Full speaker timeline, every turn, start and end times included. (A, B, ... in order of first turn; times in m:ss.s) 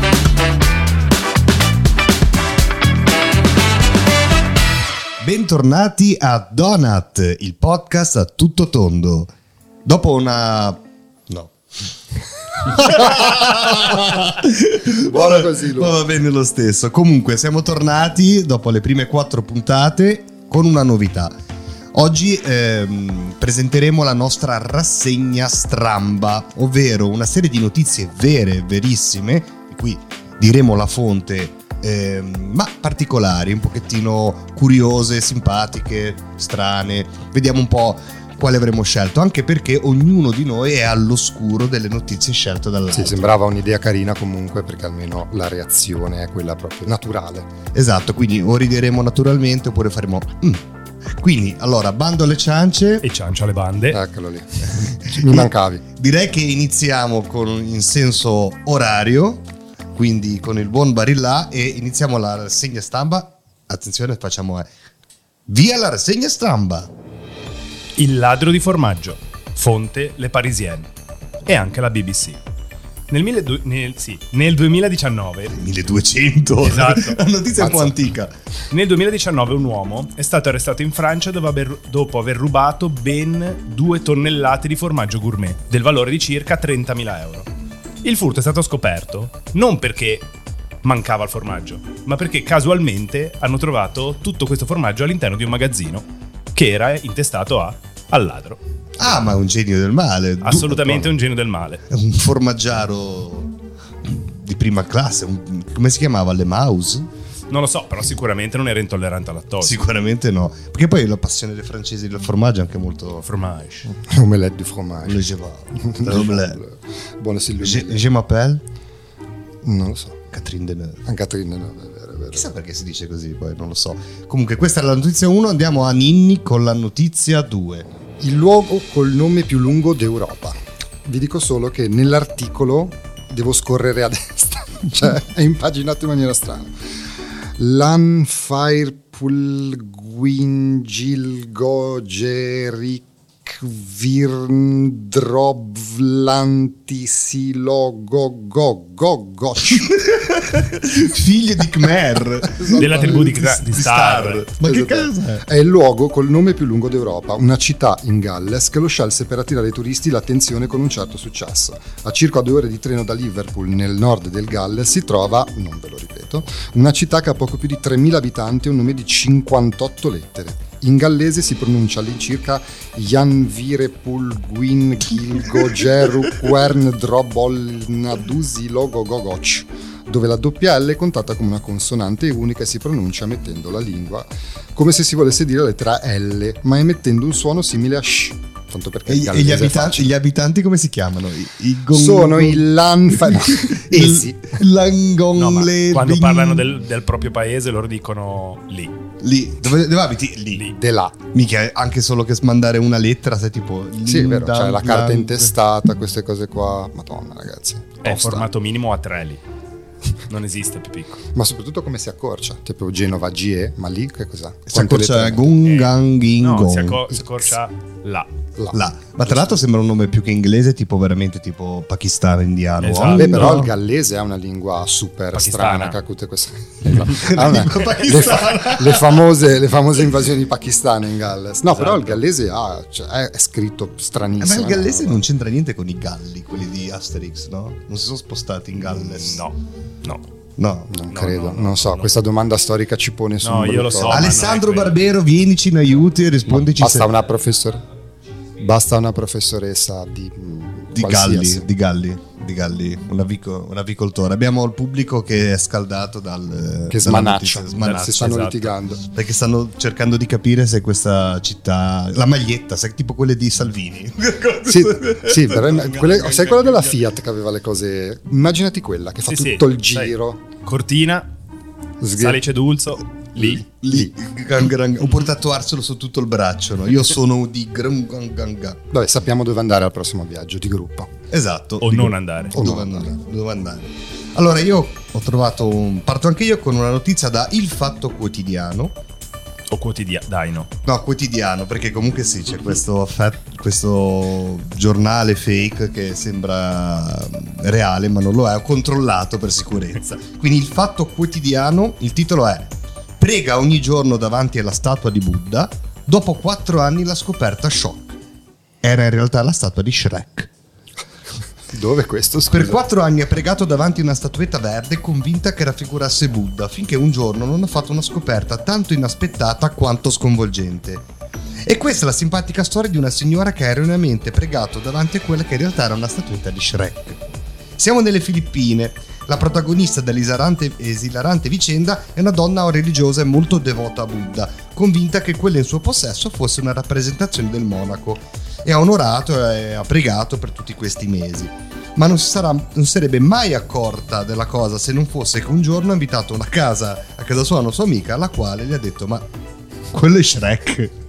0:05.2-0:09.3 A
0:09.8-0:11.5 A
0:12.6-0:21.3 A
0:12.8-0:14.0 B
0:14.9-0:16.0 B
0:21.9-0:43.3 A
0:42.9-0:47.5 B
0:47.7-0:53.0 A
0:53.0-0:54.0 C
0:53.9-0:55.8 B
0:54.6-1:04.7 A
1:05.5-1:06.9 A
1:08.0-1:10.9 C
1:11.4-1:12.4 C
1:13.1-1:15.6 C
1:15.5-1:18.3 A
1:16.6-1:17.2 C
1:17.6-1:17.9 B
1:18.7-1:27.5 C
1:28.0-1:30.3 C
1:30.8-1:38.6 C
1:39.0-1:41.1 A
1:40.4-1:41.8 C
1:41.9-1:43.5 A
1:44.0-1:47.1 A
1:47.5-1:49.8 C
1:49.6-1:53.2 A
1:53.2-1:53.9 C
1:53.9-1:58.0 B
1:55.0-1:56.6 A
1:57.6-1:58.6 A
1:59.6-2:00.2 B
2:00.3-2:01.0 A
2:01.0-2:02.5 B
2:02.3-2:07.9 A
2:08.2-2:16.7 B
2:17.6-2:29.9 B
2:29.7-2:35.4 A
2:32.4-2:33.4 B
2:32.8-2:34.4 C
2:34.6-3:10.1 B
3:09.1-3:16.7 A
3:11.9-3:14.6 B
3:15.4-3:18.9 C
3:19.2-3:20.7 A
3:20.7-3:21.2 B
3:21.3-3:25.5 A
3:24.0-3:28.5 B
3:28.0-3:29.4 C
3:30.3-3:31.2 C
3:31.3-3:35.6 B
3:34.7-3:37.0 A
3:35.6-3:38.3 C
3:38.6-3:39.6 B
3:38.7-3:43.7 A
3:42.8-3:43.6 C
3:43.1-3:55.2 B
3:45.3-3:46.0 C
3:46.9-3:49.3 A
3:51.7-3:52.2 C
3:54.4-3:59.4 A
3:59.0-4:00.2 C
4:00.6-4:01.0 A
4:00.9-4:04.3 B
4:01.1-4:02.1 C
4:03.4-4:05.0 C
4:04.1-4:07.2 A
4:06.7-4:07.8 B
4:08.6-4:11.7 B
4:10.9-4:18.4 A
4:16.9-4:19.0 B
4:17.8-4:18.8 C
4:19.1-4:27.0 A
4:24.6-4:30.4 B
4:29.3-4:31.3 C
4:32.0-4:32.4 B
4:32.1-4:33.6 C
4:33.4-4:34.1 B
4:33.4-4:38.8 A
4:38.9-4:41.1 B
4:41.3-4:48.9 A
4:41.8-4:42.5 C
4:42.5-4:43.1 B
4:49.7-4:50.7 C
4:50.8-5:08.2 A
5:08.8-5:10.5 A
5:11.7-5:12.8 B
5:12.5-5:21.0 A
5:21.6-5:27.2 A
5:27.8-5:49.2 A
5:49.9-5:51.0 A